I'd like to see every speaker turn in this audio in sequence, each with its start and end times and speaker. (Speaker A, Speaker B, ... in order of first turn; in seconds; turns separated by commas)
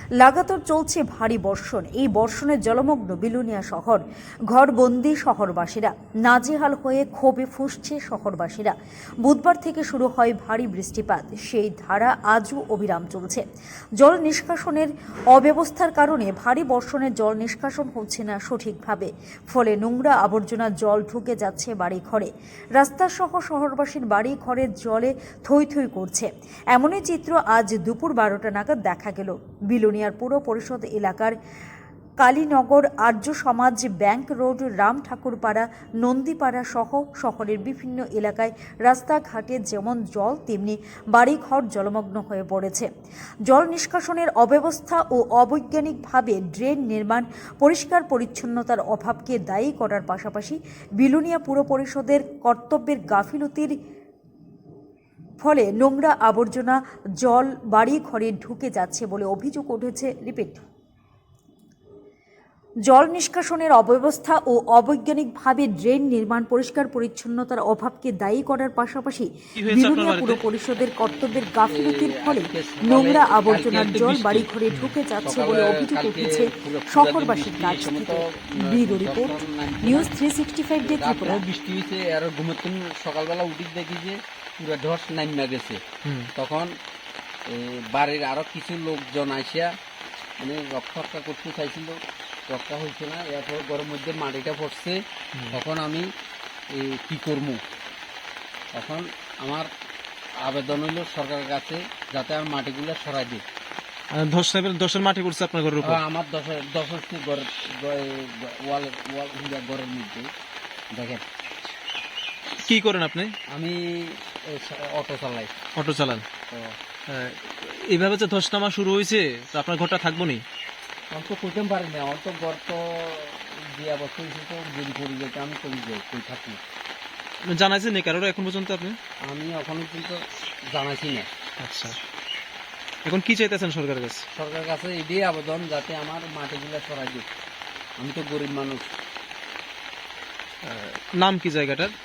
Speaker A: 0.2-13.4, Speaker A: 14.0-31.3, Speaker A: 32.2-42.9, Speaker A: 43.5-53.7, Speaker A: 55.4-60.6, Speaker A: 62.9-81.4, Speaker B: 69.6-70.4, Speaker C: 71.7-74.5, Speaker C: 75.2-80.1, Speaker C: 80.8-85.8, Speaker B: 86.0-86.3, Speaker C: 86.3-86.7, Speaker C: 87.5-89.7, Speaker C: 90.4-92.0, Speaker C: 92.5-95.0, Speaker C: 95.5-96.1, Speaker C: 96.7-97.6, Speaker C: 98.7-99.7, Speaker C: 100.4-103.4, Speaker B: 104.1-106.0, Speaker C: 105.8-110.3, Speaker C: 110.9-111.2, Speaker B: 112.7-113.3, Speaker C: 113.5-115.5, Speaker B: 115.8-116.2, Speaker C: 116.5-116.8, Speaker B: 117.1-120.4, Speaker C: 121.1-126.6, Speaker B: 127.5-129.0, Speaker C: 129.3-131.3, Speaker B: 131.6-131.9, Speaker B: 133.1-134.2, Speaker C: 134.3-137.3, Speaker C: 138.0-138.8, Speaker B: 140.6-141.9